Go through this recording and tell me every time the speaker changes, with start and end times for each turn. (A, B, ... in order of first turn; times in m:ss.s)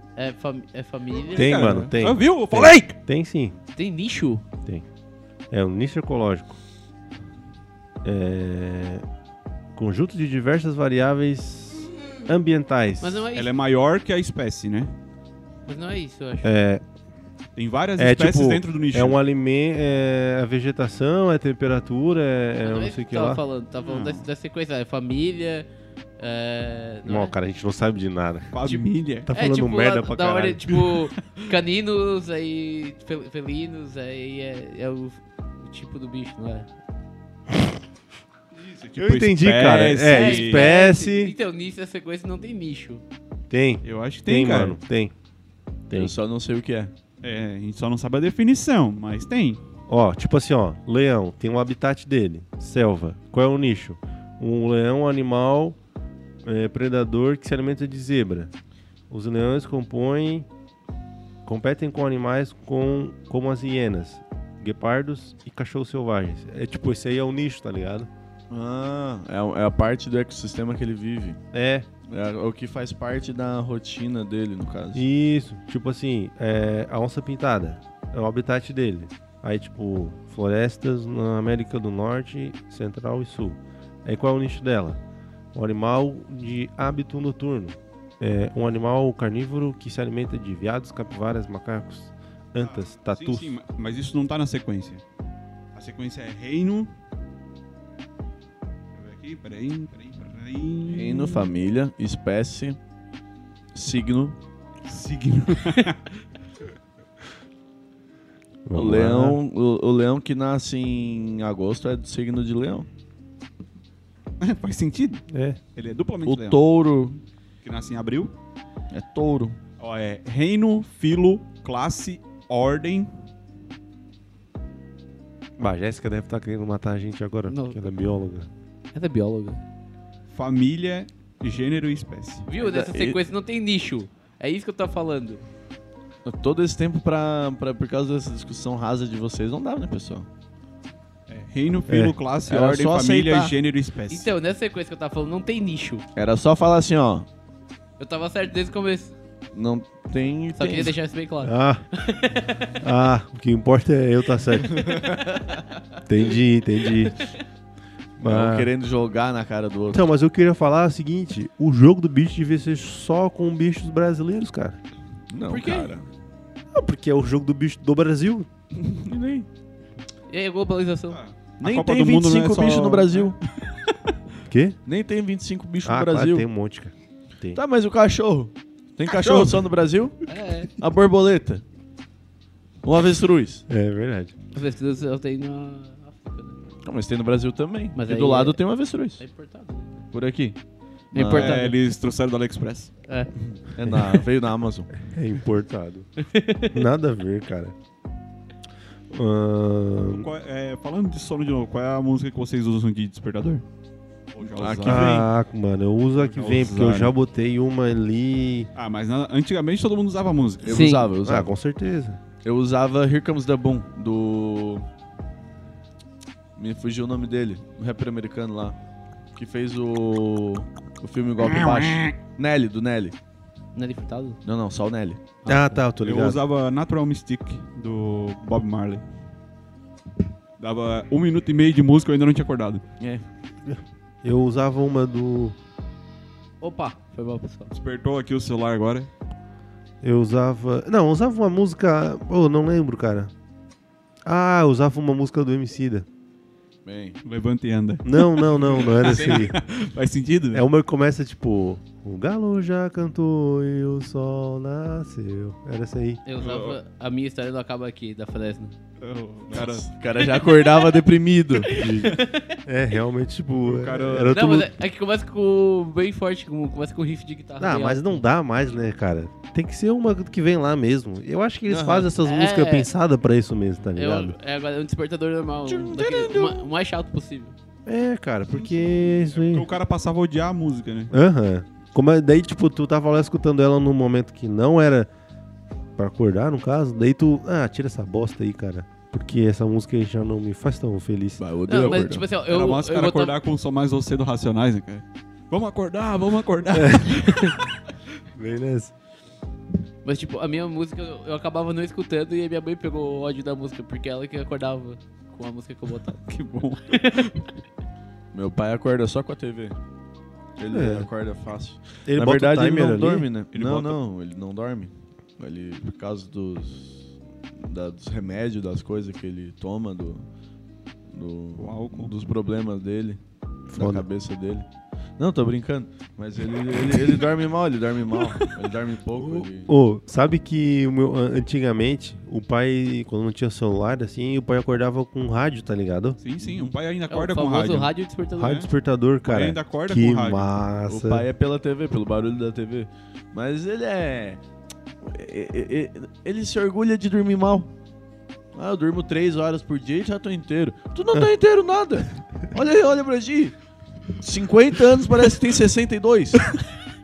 0:00.2-0:01.8 A
0:01.3-0:02.9 B
0:01.3-0:03.5 C
0:03.8-0:04.4 A
0:05.5-0:06.6 C
0:08.0-0:09.0 C
0:09.7-0:13.2 C
0:13.0-0:13.5 A
0:13.3-0:14.9 B
0:15.6-0:16.5 A
0:16.4-0:16.8 C
0:17.6-0:19.2 B
0:18.0-0:23.4 C
0:22.6-0:25.7 A
0:23.8-0:24.3 B
0:26.2-0:27.3 A
0:27.0-0:28.6 C
0:28.5-0:29.3 B
0:28.6-0:36.7 A
0:29.2-0:30.8 C
0:30.8-0:31.0 B
0:38.5-0:40.7 B
0:39.0-0:41.3 C
0:40.0-0:43.0 A
0:43.5-0:45.1 C
0:43.8-0:44.8 B
0:45.9-0:46.9 D
0:47.2-0:49.6 B
0:49.9-0:55.8 C
0:56.4-0:58.5 C
0:59.1-1:00.5 C
1:01.4-1:08.1 C
1:08.5-1:11.4 D
1:11.5-1:11.9 C
1:12.1-1:15.0 D
1:14.9-1:25.0 C
1:25.5-1:33.5 C
1:32.6-1:35.0 B
1:35.7-1:36.9 B
1:38.9-1:41.5 B
1:40.9-1:42.8 D
1:43.7-1:44.4 D
1:44.8-1:46.2 B
1:48.6-1:49.4 C
1:48.7-1:52.8 D
1:54.4-1:55.2 B
1:55.3-1:55.6 C
1:55.7-1:56.6 B
1:56.2-1:57.2 D
1:57.6-1:58.3 B
1:58.9-1:59.6 D
1:59.8-2:03.2 B
2:05.6-2:08.5 C
2:07.5-2:07.9 A
2:08.9-2:09.6 A
2:10.3-2:12.5 B
2:12.4-2:15.4 A
2:12.6-2:13.2 D
2:16.2-2:20.3 D
2:21.3-2:24.3 B
2:21.9-2:22.2 C
2:22.4-2:23.5 D
2:24.1-2:26.0 A
2:26.2-2:27.2 D
2:28.0-2:29.1 A
2:29.5-2:30.9 D
2:30.5-2:32.7 A
2:31.4-2:31.8 C
2:32.5-2:35.0 C
2:34.7-2:35.6 D
2:36.0-2:37.2 C
2:38.2-2:38.7 C
2:38.2-2:40.0 D
2:39.9-2:44.8 C
2:45.3-2:46.0 D
2:45.5-2:46.0 A
2:46.7-2:48.5 C
2:48.7-2:49.5 D
2:50.3-2:51.2 A
2:51.1-2:53.9 B
2:51.6-2:53.4 D
2:54.5-2:54.8 C
2:54.8-2:56.4 D
2:55.8-2:57.6 C
2:57.5-3:01.6 D
2:59.1-2:59.6 B
3:00.3-3:00.7 A
3:02.8-3:03.6 D
3:03.7-3:04.3 C
3:04.5-3:06.6 A
3:06.8-3:09.2 D
3:08.0-3:08.6 A
3:09.2-3:10.0 A
3:10.1-3:10.6 D
3:11.1-3:11.6 D
3:11.1-3:11.8 A
3:11.3-3:12.9 B
3:13.1-3:13.3 A
3:13.7-3:14.9 D
3:15.0-3:16.1 C
3:16.2-3:16.8 A
3:16.7-3:17.7 C
3:19.1-3:20.3 C
3:20.1-3:23.6 B
3:24.3-3:25.3 B
3:24.4-3:25.3 D
3:24.8-3:28.7 C
3:26.2-3:27.1 B
3:28.7-3:30.8 B
3:30.6-3:31.5 D
3:30.7-3:31.1 A
3:31.2-3:32.2 C
3:32.4-3:34.8 D
3:36.6-3:38.8 D
3:39.3-3:43.1 D
3:41.4-3:42.1 B
3:43.7-3:44.4 A
3:44.4-3:45.2 D
3:45.4-3:46.4 C
3:45.5-3:45.8 A
3:46.0-3:49.0 B
3:50.6-3:52.8 B
3:53.6-3:55.6 C
3:56.6-3:57.7 A
3:57.7-3:59.1 B
4:00.0-4:03.3 C
4:04.2-4:06.0 C
4:06.8-4:07.2 D
4:07.2-4:10.6 B
4:08.0-4:09.6 C
4:08.9-4:09.5 D
4:10.5-4:16.2 C
4:16.2-4:18.7 A
4:16.4-4:16.8 B
4:19.0-4:19.9 B
4:19.5-4:21.8 D
4:20.4-4:21.0 A
4:21.5-4:22.6 A
4:21.7-4:24.7 C
4:23.6-4:24.4 B
4:24.3-4:28.2 A
4:27.6-4:34.3 C
4:31.7-4:32.1 D
4:32.2-4:32.9 A
4:33.9-4:37.5 A
4:35.7-4:36.7 D
4:37.8-4:39.7 C
4:38.5-4:41.1 B
4:41.1-4:45.1 C
4:46.0-4:51.4 C
4:51.4-4:52.3 D
4:51.7-4:53.3 A
4:52.3-4:57.6 B
4:56.7-4:57.1 C
4:57.2-4:57.5 A
4:58.3-4:58.9 C
5:00.0-5:06.3 A
5:06.2-5:07.4 B
5:06.9-5:07.4 A
5:08.3-5:09.8 D
5:10.6-5:20.2 D
5:10.7-5:11.1 C
5:12.0-5:13.3 C
5:13.5-5:14.0 B
5:21.1-5:23.2 D
5:21.6-5:22.1 B
5:23.7-5:24.7 D
5:23.7-5:24.0 C
5:25.2-5:29.7 D
5:29.2-5:36.2 C
5:36.2-5:38.7 B
5:36.4-5:36.7 D
5:37.1-5:38.6 A
5:38.4-5:41.2 C
5:39.2-5:40.5 B
5:40.9-5:44.4 D
5:45.0-5:47.7 D
5:48.5-5:53.6 D
5:54.2-5:56.5 D